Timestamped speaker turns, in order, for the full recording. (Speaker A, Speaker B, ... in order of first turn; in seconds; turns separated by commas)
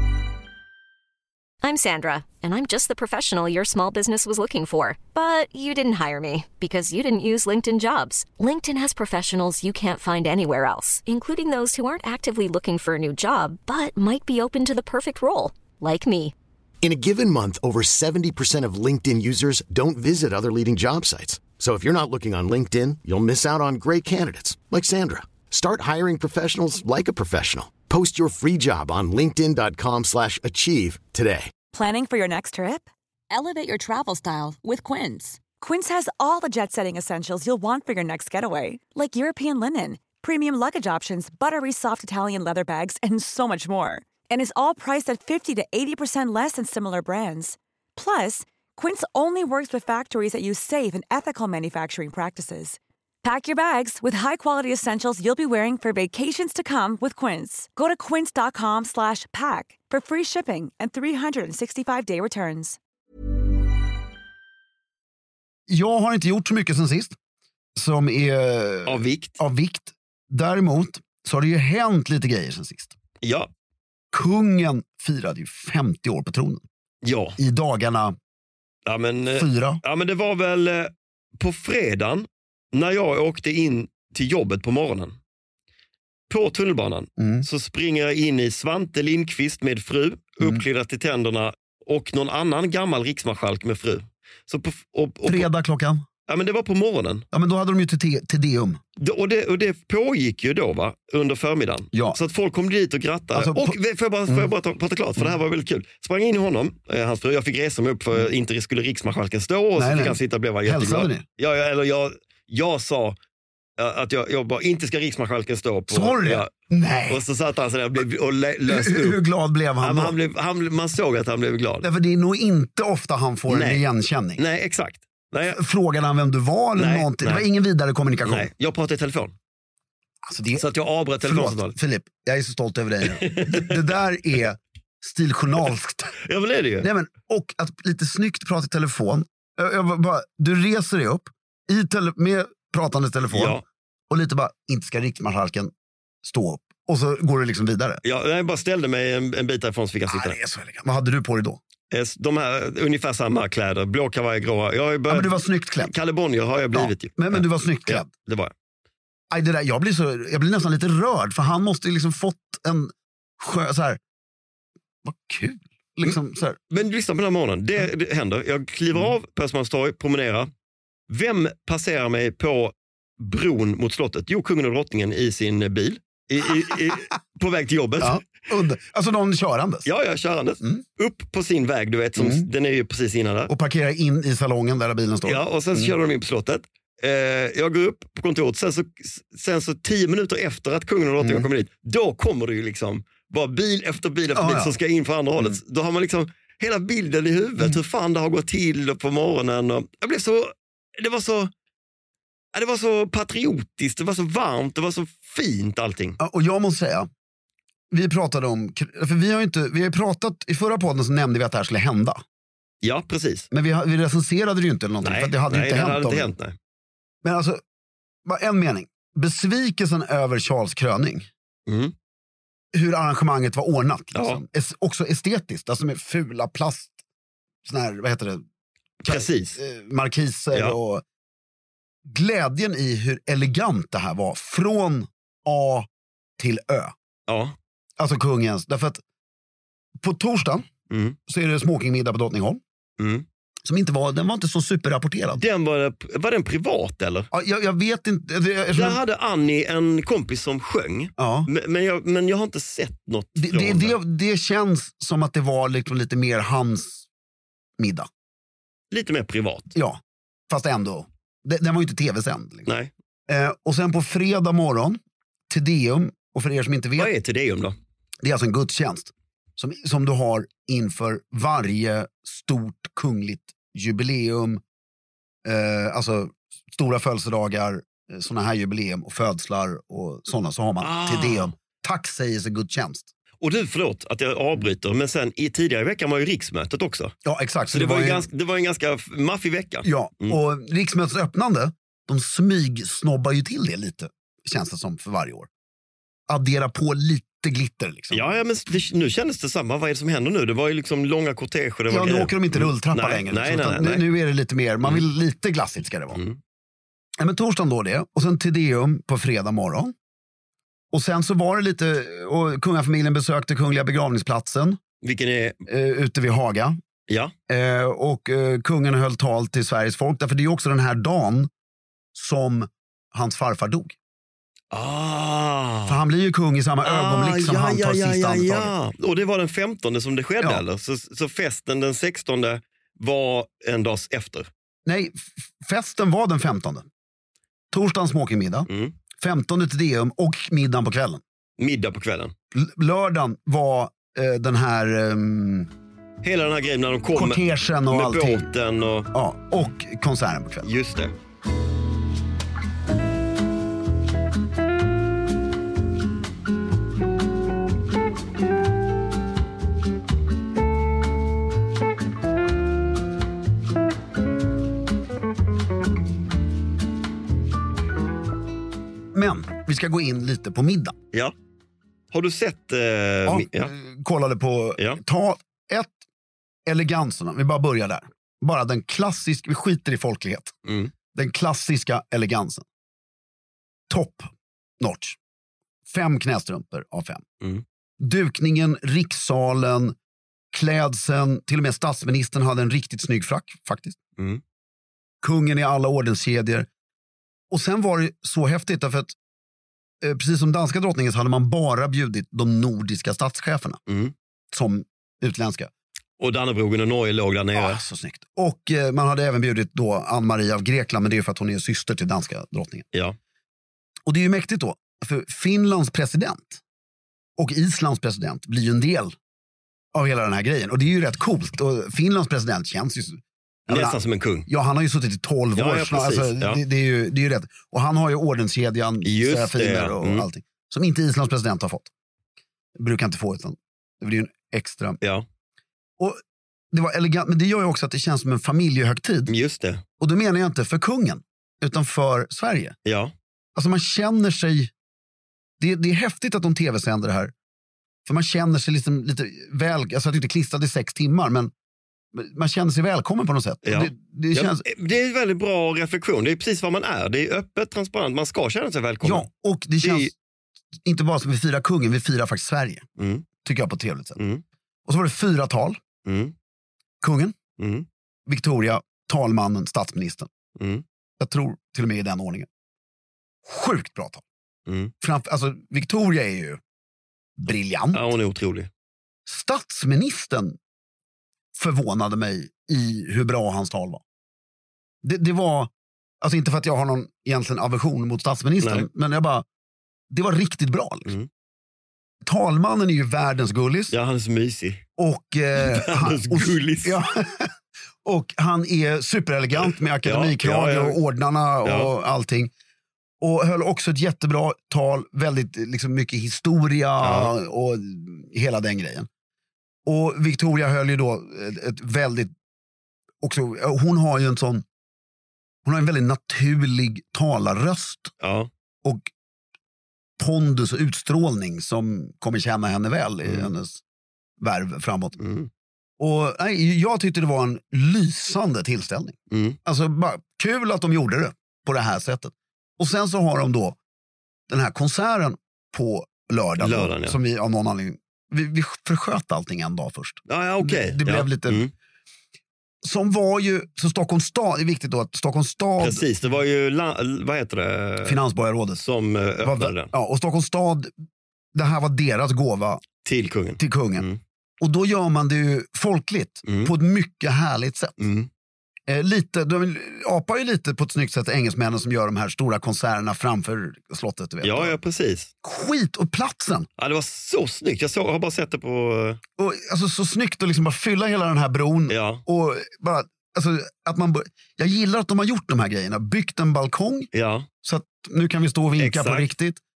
Speaker A: 1.6-16.3, Speaker B: 16.8-31.5, Speaker C: 31.7-62.8, Speaker D: 65.7-67.2, Speaker D: 67.8-72.9, Speaker E: 68.8-69.3, Speaker E: 73.2-73.5, Speaker D: 74.1-76.6, Speaker E: 77.0-77.4, Speaker D: 77.4-78.1, Speaker E: 78.8-85.1, Speaker D: 79.3-79.8, Speaker E: 86.3-95.5, Speaker D: 87.2-87.5, Speaker D: 95.2-96.0, Speaker E: 96.3-97.2, Speaker D: 97.3-98.8, Speaker E: 99.0-113.2, Speaker D: 101.9-102.2, Speaker D: 103.3-103.8, Speaker D: 109.8-111.2, Speaker E: 113.8-116.5, Speaker D: 115.9-117.2, Speaker E: 117.1-119.2, Speaker D: 118.7-120.1, Speaker E: 119.8-121.8, Speaker D: 121.8-124.4, Speaker E: 123.5-123.8, Speaker E: 124.4-125.6, Speaker D: 125.5-128.5, Speaker E: 126.8-127.5, Speaker E: 128.2-129.3, Speaker D: 130.3-130.6, Speaker E: 130.6-131.8, Speaker D: 131.2-136.1, Speaker E: 133.1-133.8, Speaker E: 136.2-136.9, Speaker D: 136.8-145.7, Speaker E: 143.3-143.6, Speaker D: 146.2-148.0, Speaker E: 148.0-150.4, Speaker D: 150.1-151.6, Speaker E: 151.9-158.5, Speaker D: 155.1-155.9, Speaker D: 156.7-158.1, Speaker D: 159.3-164.0, Speaker D: 165.0-166.6, Speaker E: 166.7-170.5, Speaker E: 171.1-178.3, Speaker D: 178.0-179.9, Speaker E: 179.8-183.5, Speaker D: 182.2-182.5, Speaker D: 183.5-185.9, Speaker E: 185.2-201.5, Speaker D: 191.2-191.5, Speaker D: 194.3-194.7, Speaker E: 202.5-206.2, Speaker D: 206.2-207.1, Speaker D: 207.9-212.2, Speaker E: 212.8-213.5, Speaker D: 213.5-216.3, Speaker E: 215.0-216.5, Speaker D: 217.2-217.6, Speaker D: 218.2-221.3, Speaker E: 221.7-221.9, Speaker D: 222.7-226.9, Speaker E: 224.1-224.4, Speaker D: 227.6-228.4, Speaker E: 229.0-229.6, Speaker D: 229.0-231.0, Speaker D: 232.1-236.9, Speaker E: 237.3-237.6, Speaker D: 238.0-239.0, Speaker D: 240.0-240.7, Speaker E: 240.9-241.2, Speaker D: 241.3-242.6, Speaker E: 243.0-243.2, Speaker D: 243.6-245.4, Speaker E: 245.4-247.3, Speaker D: 247.3-249.0, Speaker E: 248.7-254.0, Speaker D: 251.2-251.5, Speaker D: 253.4-257.1, Speaker D: 257.8-258.1, Speaker E: 258.9-259.7, Speaker D: 259.7-262.7, Speaker E: 262.6-262.9, Speaker D: 263.3-267.1, Speaker E: 267.0-267.8, Speaker D: 268.2-274.6, Speaker D: 275.4-283.1, Speaker E: 280.8-281.5, Speaker E: 283.4-287.1, Speaker D: 287.2-288.2, Speaker E: 287.7-290.4, Speaker D: 289.8-295.5, Speaker D: 296.3-298.2, Speaker E: 298.1-304.0, Speaker D: 301.9-306.2, Speaker E: 306.1-306.4, Speaker D: 307.2-309.9, Speaker D: 310.9-314.8, Speaker E: 315.0-315.6, Speaker D: 315.7-316.8, Speaker D: 317.5-321.5, Speaker D: 322.1-323.9, Speaker E: 324.7-326.0, Speaker D: 325.9-328.7, Speaker E: 326.8-334.5, Speaker D: 334.9-336.9, Speaker D: 337.7-341.2, Speaker E: 338.7-338.9, Speaker E: 341.6-342.3, Speaker D: 342.5-345.7, Speaker E: 346.2-349.1, Speaker D: 347.1-348.5, Speaker D: 349.1-350.7, Speaker E: 350.6-351.1, Speaker D: 369.1-370.9, Speaker E: 372.1-373.7, Speaker D: 373.3-375.9, Speaker D: 376.6-380.5, Speaker E: 380.6-380.9, Speaker D: 381.1-382.6, Speaker D: 383.9-384.3, Speaker D: 384.8-385.2, Speaker D: 385.9-387.2, Speaker D: 388.0-389.9, Speaker D: 390.5-394.0, Speaker D: 395.2-396.7, Speaker D: 397.5-399.1, Speaker D: 400.0-403.8, Speaker E: 403.9-404.1, Speaker D: 404.5-405.7, Speaker E: 406.2-407.8, Speaker D: 407.6-412.9, Speaker D: 414.1-416.6, Speaker D: 417.4-419.1, Speaker D: 419.9-431.9, Speaker E: 423.7-424.5, Speaker E: 425.5-426.6, Speaker E: 429.0-430.2, Speaker D: 432.8-435.0, Speaker D: 436.7-439.3, Speaker E: 439.3-439.8, Speaker D: 440.0-442.7, Speaker E: 442.8-443.1, Speaker D: 443.6-444.7, Speaker D: 445.6-447.3, Speaker D: 448.1-451.5, Speaker D: 452.1-454.6, Speaker E: 453.6-459.3, Speaker D: 459.0-460.1, Speaker E: 459.8-460.1, Speaker D: 460.8-462.8, Speaker E: 463.0-463.2, Speaker D: 463.4-464.2, Speaker E: 464.2-464.4, Speaker D: 464.9-465.8, Speaker E: 466.1-466.3, Speaker D: 467.0-467.4, Speaker E: 467.6-467.9, Speaker D: 468.3-470.3, Speaker E: 470.6-470.8, Speaker D: 471.2-472.5, Speaker D: 473.4-474.2, Speaker E: 474.7-474.9, Speaker D: 475.0-476.6, Speaker D: 477.4-478.0, Speaker E: 477.9-478.7, Speaker D: 479.2-480.6, Speaker D: 481.5-484.0, Speaker D: 485.0-485.7, Speaker D: 486.2-489.4, Speaker E: 488.6-488.9, Speaker D: 490.1-491.1, Speaker D: 492.2-493.9, Speaker E: 493.9-494.8, Speaker D: 495.0-497.5, Speaker E: 495.6-497.0, Speaker D: 498.0-502.5, Speaker E: 499.6-501.0, Speaker E: 501.6-501.9, Speaker D: 503.2-509.1, Speaker E: 507.0-507.3, Speaker D: 509.9-512.3, Speaker D: 513.2-514.6, Speaker D: 515.6-518.1, Speaker E: 518.2-518.5, Speaker D: 518.8-519.1, Speaker D: 520.2-523.8, Speaker D: 524.4-525.2, Speaker E: 525.2-525.5, Speaker D: 526.0-533.8, Speaker E: 529.3-529.6, Speaker D: 534.5-541.6, Speaker E: 536.6-537.2, Speaker E: 540.3-541.7, Speaker D: 542.8-546.0, Speaker E: 545.8-548.2, Speaker D: 548.0-548.8, Speaker E: 548.8-549.9, Speaker D: 549.4-550.9, Speaker D: 551.5-552.8, Speaker E: 553.0-554.2, Speaker D: 553.6-554.0, Speaker D: 554.6-558.0, Speaker E: 556.5-556.7, Speaker E: 558.0-558.3, Speaker D: 558.9-564.8, Speaker E: 564.4-565.3, Speaker D: 565.4-566.7, Speaker E: 566.8-569.2, Speaker D: 569.4-577.1, Speaker E: 571.9-572.2, Speaker E: 577.1-577.5, Speaker D: 577.6-579.6, Speaker E: 578.8-579.3